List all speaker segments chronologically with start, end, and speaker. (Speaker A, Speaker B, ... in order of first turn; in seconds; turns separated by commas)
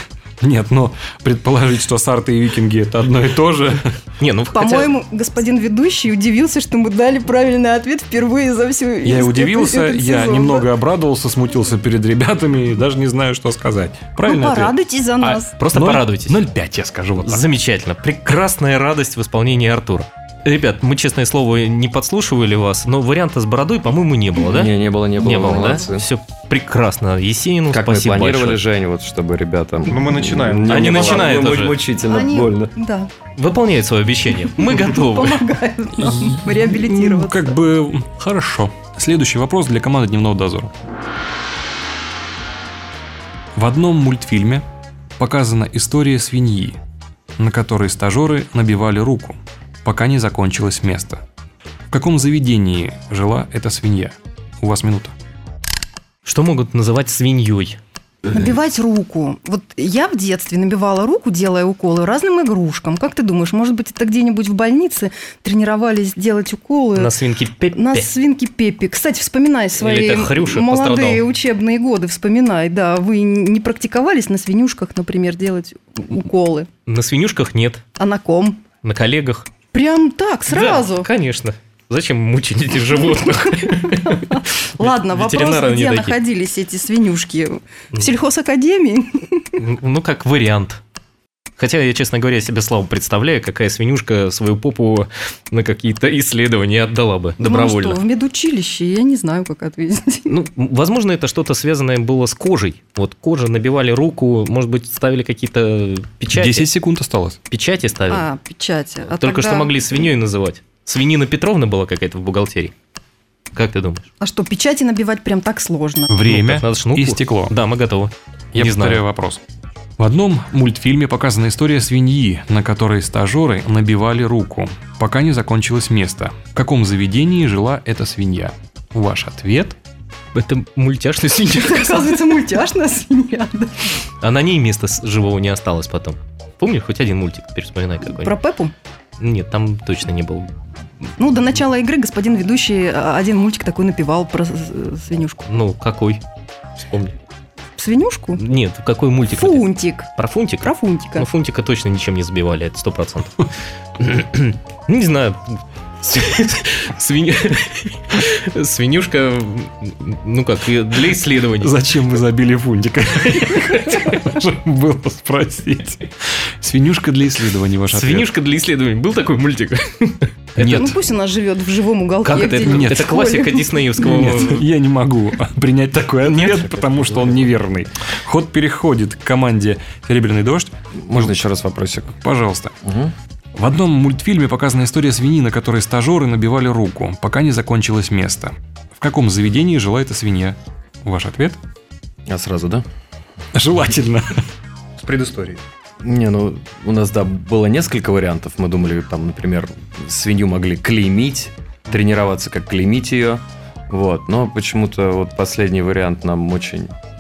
Speaker A: 0.4-3.9, Speaker B: 4.2-4.9, Speaker C: 4.5-10.7, Speaker A: 9.0-17.4, Speaker C: 14.2-15.6, Speaker B: 15.6-16.4, Speaker B: 17.2-28.6, Speaker D: 24.4-26.1, Speaker D: 27.7-32.7, Speaker E: 29.9-31.4, Speaker B: 30.7-31.8, Speaker C: 32.0-33.1, Speaker B: 33.4-35.5, Speaker C: 34.6-37.6, Speaker A: 36.0-40.7, Speaker A: 43.6-44.6, Speaker A: 45.2-46.8, Speaker A: 47.4-51.2, Speaker A: 51.9-55.1, Speaker B: 56.3-57.8, Speaker C: 58.3-67.1, Speaker B: 66.9-68.1, Speaker C: 67.7-76.7, Speaker B: 69.8-71.3, Speaker B: 76.9-77.8, Speaker C: 78.0-78.6, Speaker B: 78.8-79.5, Speaker C: 79.7-81.1, Speaker B: 80.5-86.2, Speaker C: 84.0-89.4, Speaker B: 89.6-90.8, Speaker B: 91.6-98.0, Speaker C: 97.4-100.3, Speaker B: 100.3-106.7, Speaker A: 106.3-107.4, Speaker B: 107.5-108.3, Speaker C: 108.1-109.8, Speaker B: 109.1-112.7, Speaker B: 113.5-114.1, Speaker C: 114.2-116.2, Speaker A: 116.1-117.6, Speaker B: 116.2-119.0, Speaker A: 118.5-119.4, Speaker A: 120.0-129.8, Speaker B: 130.3-132.4, Speaker C: 131.6-133.9, Speaker B: 134.2-138.3, Speaker C: 138.1-138.7, Speaker B: 139.2-140.5, Speaker C: 141.2-145.5, Speaker B: 145.4-146.2, Speaker B: 146.8-147.2, Speaker C: 147.8-148.4, Speaker B: 148.3-161.8, Speaker C: 149.3-150.1, Speaker C: 150.6-151.3, Speaker A: 161.6-166.1, Speaker B: 163.8-164.1, Speaker A: 166.6-168.3, Speaker B: 167.9-170.9, Speaker A: 170.6-170.9, Speaker C: 170.6-174.3, Speaker B: 172.2-174.7, Speaker A: 172.6-173.2, Speaker A: 174.0-181.3, Speaker B: 176.3-177.0, Speaker D: 181.0-182.2, Speaker A: 182.1-182.8, Speaker D: 182.8-183.1, Speaker A: 183.6-191.6, Speaker D: 192.3-192.8, Speaker A: 193.5-194.3, Speaker E: 195.0-195.6, Speaker D: 196.0-206.9